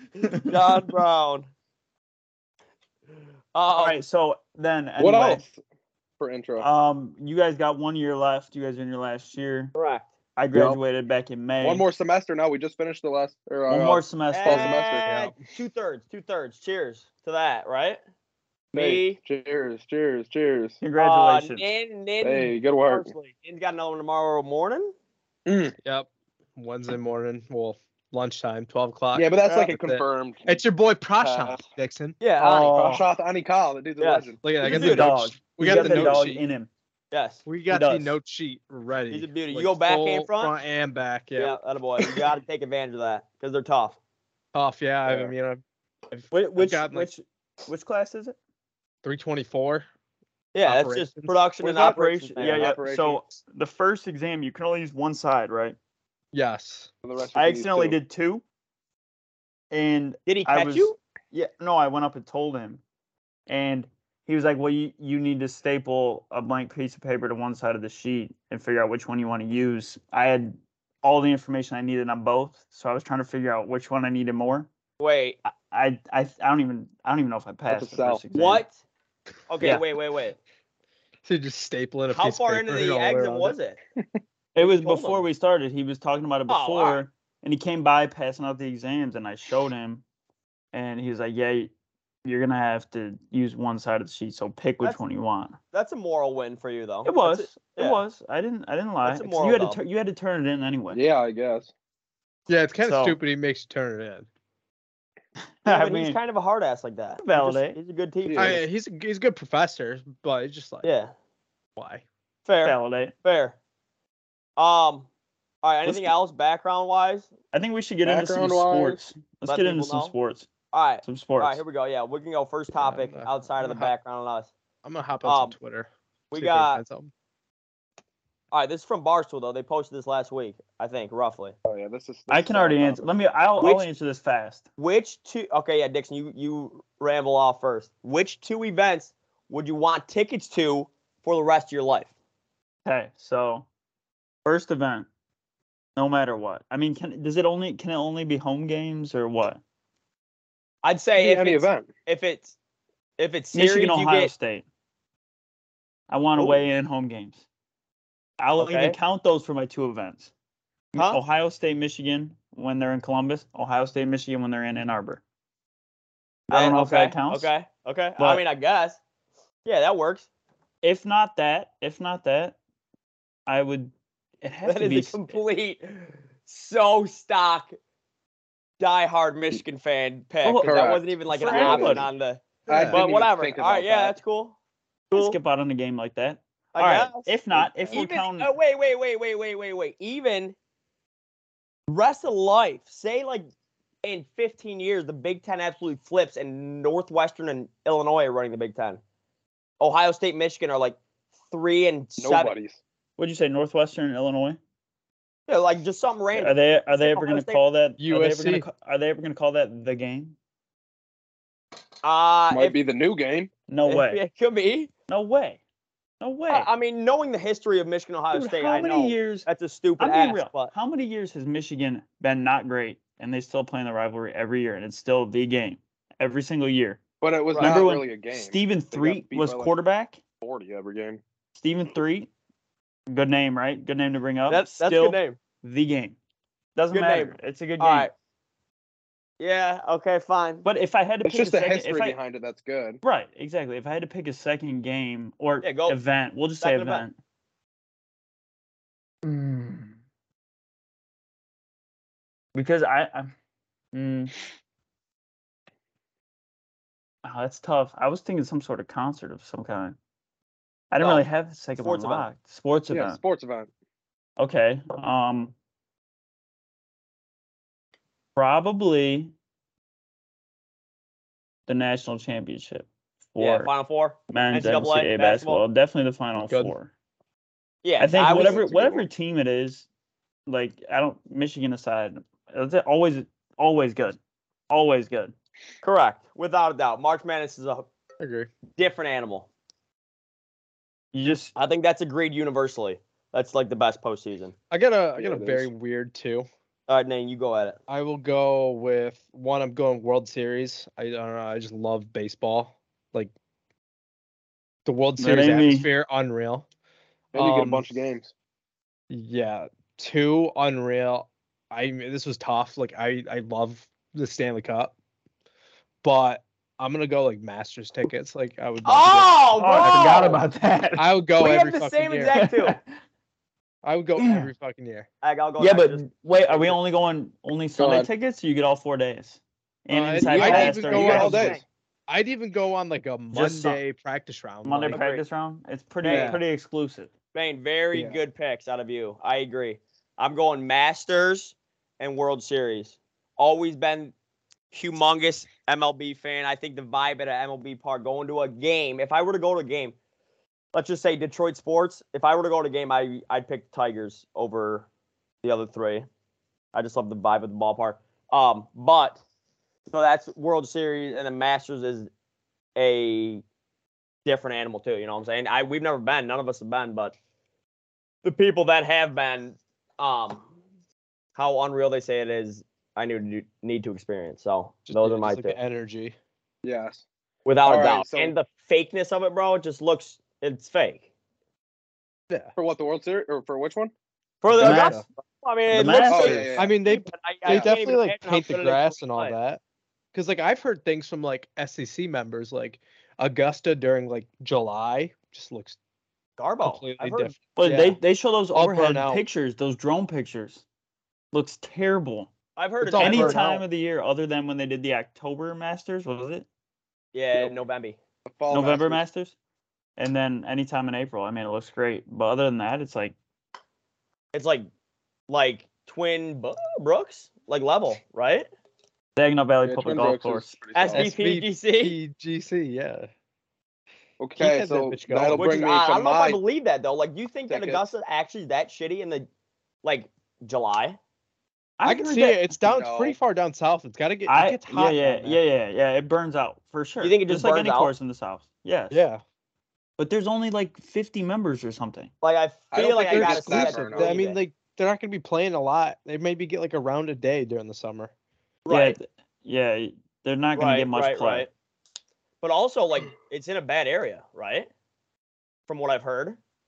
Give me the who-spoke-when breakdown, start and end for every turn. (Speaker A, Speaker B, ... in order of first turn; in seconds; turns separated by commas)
Speaker A: 0.2-1.5, Speaker B: 0.2-0.6, Speaker A: 3.5-4.0, Speaker B: 3.7-5.4, Speaker C: 5.0-5.6, Speaker C: 6.2-6.7, Speaker B: 6.6-9.7, Speaker A: 9.7-10.1, Speaker B: 10.4-11.8, Speaker C: 11.6-15.1, Speaker B: 13.7-14.8, Speaker A: 14.3-18.0, Speaker D: 14.9-15.4, Speaker A: 18.7-19.2, Speaker C: 18.7-20.8, Speaker B: 20.8-21.6, Speaker A: 21.0-24.9, Speaker C: 22.2-23.1, Speaker C: 25.4-25.7, Speaker D: 25.8-32.2, Speaker C: 29.1-30.6, Speaker C: 31.2-31.6, Speaker A: 32.2-33.0, Speaker B: 32.4-33.0, Speaker C: 32.5-34.4, Speaker A: 34.0-35.0, Speaker D: 34.4-36.4, Speaker B: 34.6-36.7, Speaker A: 35.6-36.0, Speaker A: 37.1-37.4, Speaker D: 37.5-41.6, Speaker B: 37.7-38.1, Speaker A: 39.1-40.5, Speaker A: 41.4-44.0, Speaker D: 44.5-47.1, Speaker C: 45.1-45.3, Speaker B: 46.3-48.4, Speaker D: 49.0-49.9, Speaker A: 50.5-52.8, Speaker D: 50.6-51.4, Speaker C: 51.6-53.2, Speaker B: 51.7-55.8, Speaker D: 56.3-56.9, Speaker C: 57.0-58.0, Speaker B: 57.3-58.4, Speaker B: 59.7-62.8, Speaker A: 60.3-61.0, Speaker B: 63.5-74.7, Speaker A: 75.0-75.4, Speaker B: 75.7-78.6, Speaker C: 77.7-78.2, Speaker A: 78.3-78.8, Speaker A: 79.5-80.4, Speaker D: 81.2-83.5, Speaker A: 82.1-83.8, Speaker B: 84.5-90.0, Speaker A: 84.6-85.2, Speaker A: 86.5-87.0, Speaker B: 90.7-91.7, Speaker B: 92.2-95.5, Speaker A: 95.7-98.0, Speaker B: 97.0-101.0, Speaker A: 99.0-99.8, Speaker C: 100.9-101.7, Speaker D: 102.5-104.3, Speaker B: 102.8-103.2, Speaker B: 105.6-106.2, Speaker A: 105.7-108.6, Speaker B: 107.2-107.8, Speaker C: 108.2-108.6, Speaker D: 108.3-110.8, Speaker A: 110.8-111.1, Speaker D: 111.8-112.0, Speaker A: 112.5-113.6, Speaker B: 112.6-113.1, Speaker A: 114.6-115.1, Speaker A: 115.6-117.3, Speaker B: 115.8-116.1, Speaker B: 117.5-120.5, Speaker C: 118.0-119.0, Speaker A: 119.5-120.1, Speaker A: 120.7-124.5, Speaker B: 121.0-121.6, Speaker D: 122.8-123.9, Speaker D: 124.8-127.1, Speaker A: 125.2-125.5, Speaker A: 126.3-126.8, Speaker A: 128.5-131.5, Speaker C: 131.7-133.1, Speaker B: 132.3-134.6, Speaker A: 133.6-133.9, Speaker A: 134.8-142.1, Speaker B: 142.8-143.7, Speaker B: 144.4-145.1, Speaker B: 145.9-149.6, Speaker A: 150.8-152.5, Speaker C: 151.2-151.9, Speaker A: 153.2-154.3, Speaker B: 153.5-154.6, Speaker B: 156.1-157.4, Speaker B: 158.4-160.3, Speaker A: 158.6-158.9, Speaker A: 160.9-161.2, Speaker B: 160.9-165.2, Speaker B: 166.5-167.5, Speaker A: 166.5-169.0, Speaker A: 169.6-170.3, Speaker B: 170.8-172.6, Speaker B: 173.5-175.3, Speaker A: 174.6-177.8, Speaker A: 178.8-184.6, Speaker B: 180.4-182.1, Speaker C: 180.6-182.1, Speaker D: 182.7-183.0, Speaker C: 182.7-184.2, Speaker A: 185.1-185.4, Speaker B: 185.1-188.5, Speaker A: 186.7-187.3, Speaker C: 187.5-188.0, Speaker A: 187.9-190.6, Speaker A: 191.9-193.5, Speaker A: 194.0-199.0, Speaker A: 199.8-201.0, Speaker A: 201.5-202.5, Speaker C: 202.2-202.8, Speaker B: 203.2-204.6, Speaker A: 205.5-207.6, Speaker B: 206.3-210.3, Speaker D: 208.0-208.7, Speaker A: 212.0-212.8, Speaker C: 212.5-213.5, Speaker B: 213.7-214.2, Speaker A: 213.8-214.9, Speaker B: 215.1-215.6, Speaker B: 216.2-216.7, Speaker A: 216.5-220.7, Speaker B: 218.3-219.5, Speaker B: 220.0-227.0, Speaker C: 227.2-229.7, Speaker A: 227.5-227.8, Speaker B: 227.6-230.2, Speaker C: 230.4-231.2, Speaker B: 231.5-232.3, Speaker B: 233.1-236.2, Speaker A: 234.5-235.4, Speaker B: 236.8-238.1, Speaker A: 236.9-238.1, Speaker A: 239.4-240.7, Speaker B: 240.6-242.2, Speaker C: 241.2-243.0, Speaker B: 243.0-247.2, Speaker A: 245.6-246.0, Speaker A: 246.6-247.1, Speaker B: 249.2-249.9, Speaker B: 252.5-253.3, Speaker B: 253.9-254.3, Speaker B: 257.2-259.9, Speaker B: 260.9-263.2, Speaker A: 261.8-262.3, Speaker C: 262.9-263.7, Speaker B: 264.4-265.5, Speaker B: 268.4-269.3, Speaker B: 271.7-273.7, Speaker A: 273.4-275.6, Speaker B: 274.3-276.9, Speaker D: 276.4-276.7, Speaker A: 277.8-278.6, Speaker B: 278.0-279.9, Speaker C: 278.3-279.0, Speaker B: 280.5-284.2, Speaker B: 284.7-285.3, Speaker A: 285.8-287.9, Speaker D: 288.2-288.5, Speaker A: 288.8-289.5, Speaker B: 291.1-291.5, Speaker A: 291.5-294.5, Speaker D: 294.7-296.5, Speaker C: 295.1-295.7, Speaker A: 296.9-297.8, Speaker D: 297.9-303.3, Speaker D: 304.9-306.6, Speaker B: 305.2-305.9, Speaker C: 307.3-308.3, Speaker D: 307.3-307.9, Speaker D: 309.1-314.9, Speaker D: 316.0-320.4, Speaker A: 318.8-320.4, Speaker B: 319.6-321.1, Speaker D: 321.0-322.4, Speaker A: 321.4-322.8, Speaker B: 322.4-322.8, Speaker D: 323.8-325.1, Speaker B: 324.2-324.5, Speaker A: 325.2-326.8, Speaker B: 325.6-331.5, Speaker C: 327.8-328.1, Speaker D: 329.9-335.0, Speaker C: 330.2-331.6, Speaker A: 330.4-331.6, Speaker B: 333.3-333.8, Speaker B: 334.6-337.1, Speaker A: 334.9-335.2, Speaker A: 336.0-336.4, Speaker D: 336.1-336.4, Speaker A: 337.3-344.1, Speaker C: 337.9-338.2, Speaker A: 344.7-349.9, Speaker A: 350.7-354.9, Speaker A: 355.4-356.1, Speaker A: 356.7-359.2, Speaker A: 359.9-362.1, Speaker A: 362.8-363.4, Speaker A: 364.2-367.1, Speaker A: 368.2-370.5, Speaker A: 371.4-375.6, Speaker D: 374.9-376.1, Speaker C: 376.6-377.0, Speaker A: 377.4-381.0, Speaker C: 377.6-378.3, Speaker C: 382.5-383.9, Speaker A: 384.4-389.3, Speaker D: 384.5-385.1, Speaker B: 384.5-385.0, Speaker B: 385.7-386.6, Speaker C: 386.1-386.7, Speaker D: 386.6-389.6, Speaker D: 390.1-395.8, Speaker A: 396.4-397.3, Speaker D: 396.6-398.0, Speaker B: 397.6-400.6, Speaker D: 398.5-399.2, Speaker B: 401.3-402.3, Speaker A: 402.6-403.4, Speaker D: 402.8-403.6, Speaker B: 403.0-406.4, Speaker A: 407.1-408.0, Speaker C: 408.3-409.0, Speaker B: 408.5-409.3, Speaker B: 410.0-413.1, Speaker A: 414.3-414.7, Speaker A: 415.3-418.5, Speaker B: 419.1-420.6, Speaker C: 419.6-421.1, Speaker A: 420.7-422.0, Speaker D: 420.9-423.1, Speaker C: 424.2-426.4, Speaker D: 424.4-425.7, Speaker A: 425.3-429.3, Speaker C: 427.5-427.8, Speaker A: 429.8-431.0, Speaker B: 431.8-432.5, Speaker D: 431.8-435.4, Speaker C: 432.6-433.1, Speaker B: 434.3-439.0, Speaker A: 437.0-437.9, Speaker D: 438.9-439.2, Speaker B: 440.0-442.1, Speaker A: 442.2-444.4, Speaker C: 442.7-444.2, Speaker D: 443.0-448.1, Speaker A: 448.6-449.0, Speaker B: 448.7-451.5, Speaker A: 450.6-451.5, Speaker A: 452.4-454.7, Speaker A: 455.7-456.4